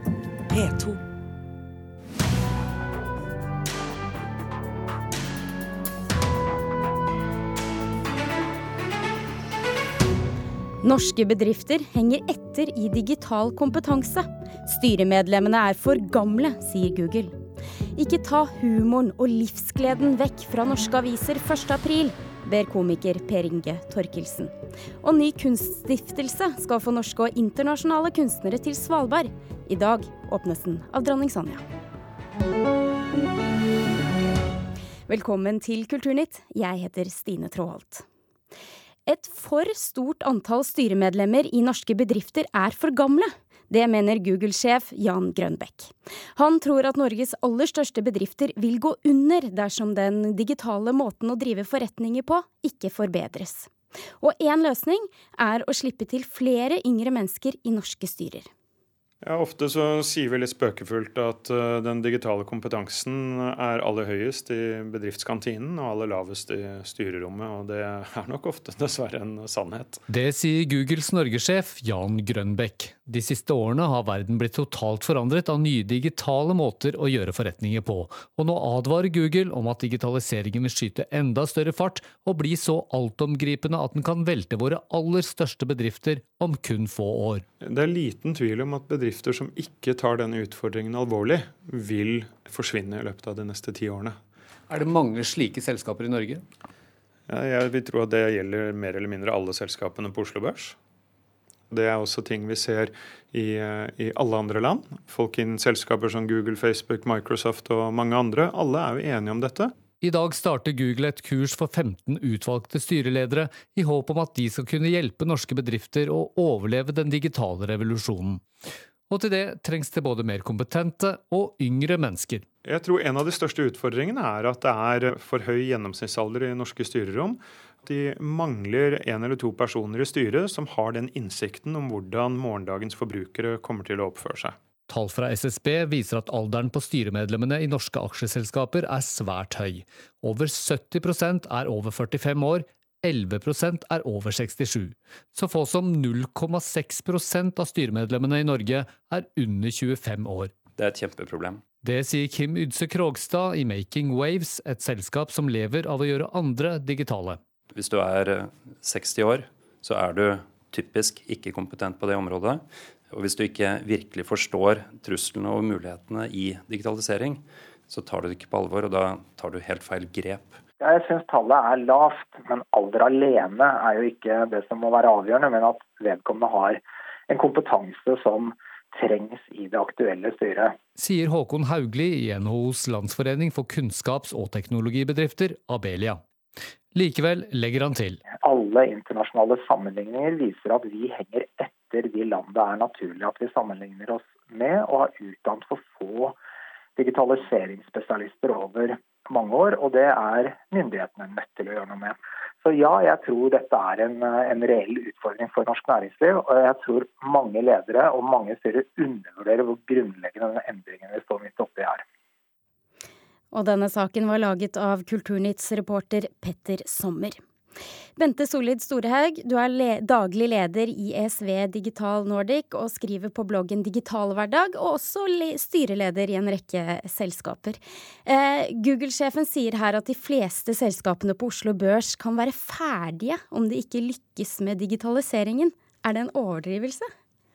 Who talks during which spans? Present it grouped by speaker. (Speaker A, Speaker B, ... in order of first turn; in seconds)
Speaker A: 10.8-17.3, 17.9-31.6, 35.1-38.0, 39.1-58.5, 213.5-217.4, 218.2-237.1
Speaker B: 59.2-70.0, 87.6-94.2, 97.3-100.8, 101.7-109.7, 122.6-134.6
Speaker C: 70.1-87.4, 94.7-96.4, 110.0-118.4, 119.1-122.4, 134.9-150.6, 151.8-157.4, 181.0-186.2, 186.9-188.2
Speaker D: 150.7-151.7, 157.7-170.6
Speaker E: 170.8-180.7, 188.3-196.3, 197.0-212.0